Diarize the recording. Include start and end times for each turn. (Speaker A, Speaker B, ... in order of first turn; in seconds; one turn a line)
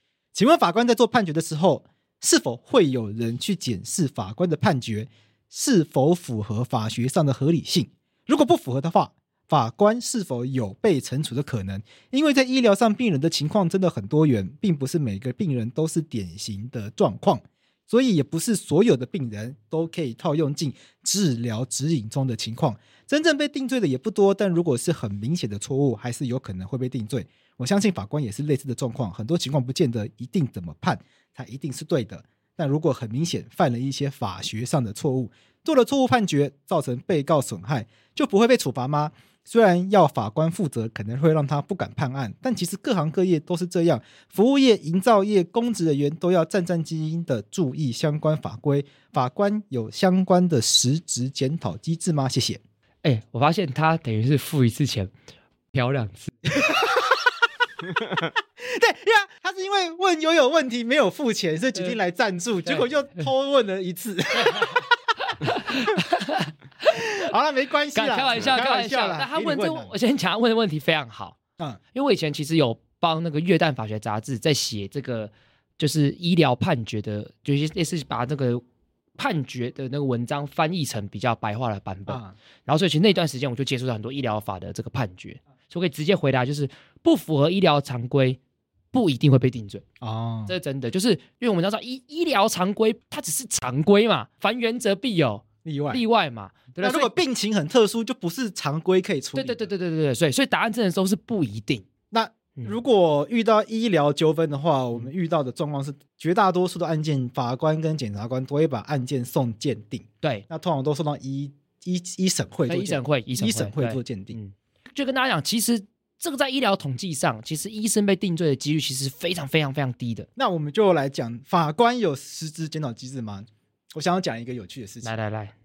Speaker A: 0.3-52.6
Speaker B: 53.0-55.1
Speaker B: 55.7-56.3
Speaker A: 56.6-57.1
Speaker A: 58.6-64.8
Speaker B: 64.4-67.1
Speaker A: 66.9-70.0
Speaker B: 67.9-71.4
Speaker B: 71.9-78.6
Speaker B: 79.2-88.4
Speaker A: 82.1-82.3
Speaker B: 88.9-89.8
Speaker A: 90.0-90.5
Speaker B: 90.5-97.1
Speaker A: 95.6-96.0
Speaker A: 96.8-99.7
Speaker B: 99.3-101.8
Speaker A: 102.1-114.4
Speaker B: 112.7-120.3
Speaker A: 120.3-125.1
Speaker B: 125.0-125.5